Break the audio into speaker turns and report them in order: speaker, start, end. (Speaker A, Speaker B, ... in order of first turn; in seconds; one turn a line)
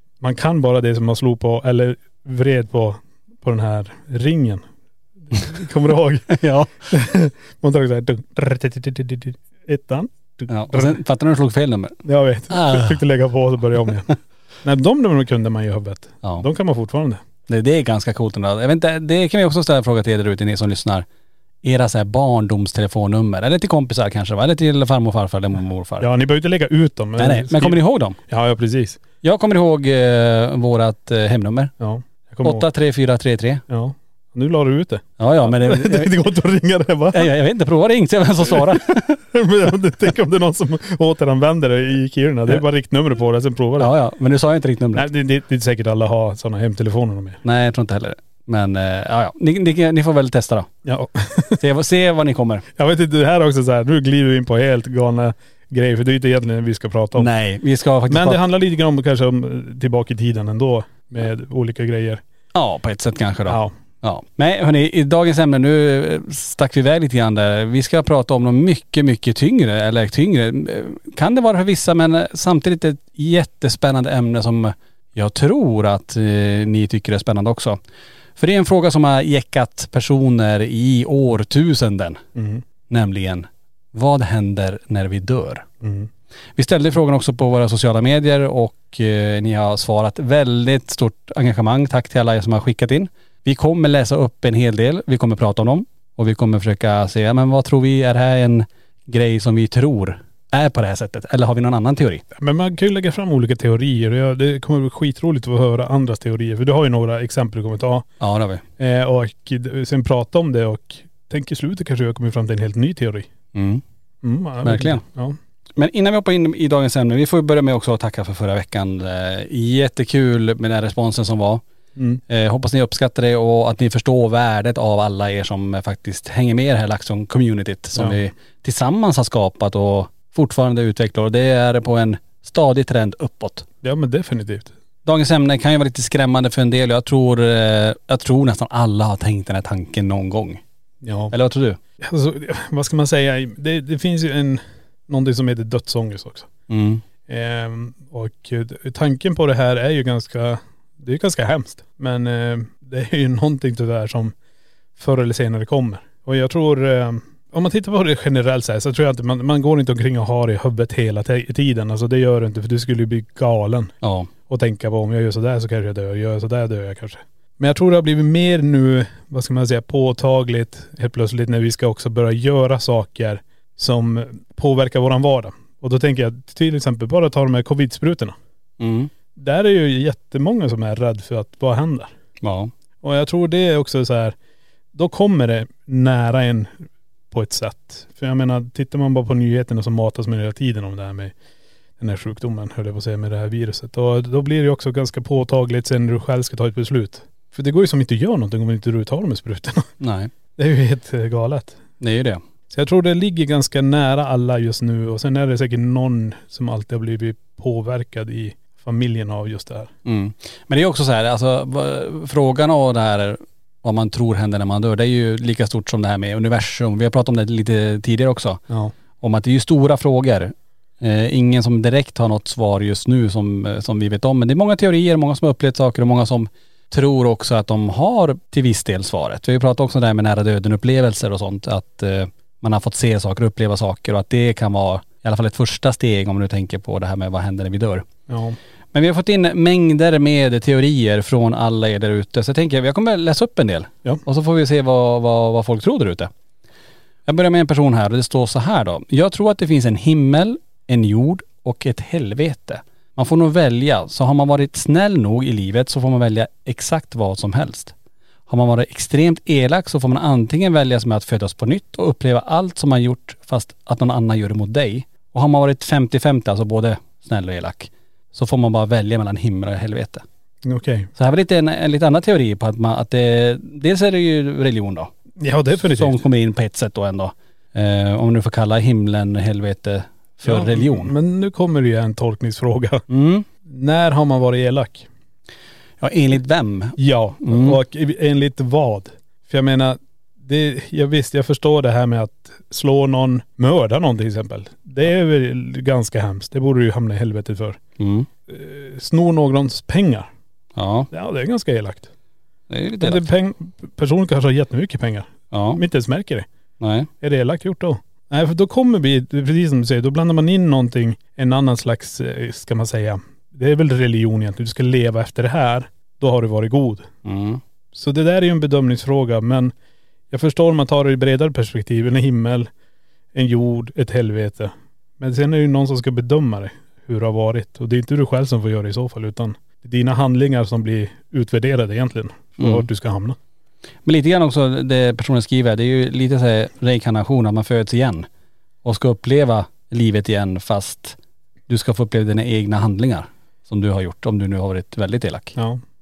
Speaker A: 0.2-4.7
Speaker A: 5.3-11.0
Speaker B: 6.3-6.7
Speaker B: 10.5-12.0
Speaker A: 12.0-17.2
Speaker B: 12.5-13.0
Speaker B: 17.5-21.0
Speaker B: 21.6-26.1
Speaker A: 26.0-29.0
Speaker B: 27.2-28.2
Speaker B: 29.2-31.7
Speaker A: 31.8-32.6
Speaker B: 32.4-33.6
Speaker A: 33.7-37.3
Speaker B: 35.2-36.2
Speaker B: 37.1-39.2
Speaker A: 38.5-43.9
Speaker B: 43.8-45.1
Speaker A: 44.9-47.4
Speaker B: 47.4-50.7
Speaker A: 50.8-51.6
Speaker B: 51.6-52.6
Speaker A: 52.8-57.3
Speaker B: 57.1-58.4
Speaker A: 58.1-62.2
Speaker B: 62.5-77.8
Speaker A: 63.5-63.7
Speaker B: 78.4-82.2
Speaker A: 82.3-82.6
Speaker B: 82.9-85.7
Speaker A: 85.8-86.1
Speaker B: 86.5-102.2
Speaker A: 102.3-108.1
Speaker B: 108.2-108.6
Speaker A: 108.8-113.3
Speaker B: 113.5-113.8
Speaker A: 114.2-115.3
Speaker B: 114.6-115.0
Speaker B: 115.8-121.6
Speaker A: 122.0-122.2
Speaker B: 122.3-133.7
Speaker A: 127.9-128.2
Speaker A: 133.8-134.7
Speaker B: 135.0-140.6
Speaker A: 141.0-141.3
Speaker B: 141.3-141.8
Speaker A: 142.0-146.5
Speaker B: 146.7-147.0
Speaker A: 147.3-154.3
Speaker A: 155.0-163.9
Speaker B: 164.0-164.3
Speaker A: 164.5-178.3
Speaker B: 178.8-179.1
Speaker A: 179.3-182.1
Speaker B: 182.4-182.7
Speaker A: 183.0-184.3
Speaker A: 184.9-191.3
Speaker A: 192.0-199.9
Speaker B: 200.0-200.3
Speaker A: 200.6-201.8
Speaker B: 202.0-202.4
Speaker A: 202.7-209.9
Speaker B: 210.0-218.6
Speaker B: 219.2-238.1
Speaker A: 238.3-238.6
Speaker B: 238.9-246.3
Speaker B: 247.3-257.9
Speaker B: 258.5-270.2
Speaker A: 270.6-271.1
Speaker B: 271.1-275.1
Speaker A: 275.4-276.2
Speaker B: 275.9-281.1
Speaker A: 280.4-283.0
Speaker B: 283.1-283.4
Speaker A: 283.6-285.1
Speaker B: 286.0-287.8
Speaker A: 287.0-297.8
Speaker B: 298.0-298.3
Speaker A: 298.5-300.3
Speaker B: 300.8-301.1
Speaker A: 301.1-302.1
Speaker B: 302.7-303.3
Speaker A: 303.0-306.5
Speaker B: 305.5-305.8
Speaker B: 306.8-307.1
Speaker A: 307.2-317.1
Speaker B: 317.2-317.6
Speaker A: 317.9-319.7
Speaker A: 320.3-322.7
Speaker A: 323.3-333.4
Speaker B: 332.6-332.9
Speaker B: 334.1-338.3
Speaker B: 338.8-341.2
Speaker B: 341.7-345.6
Speaker A: 345.6-345.8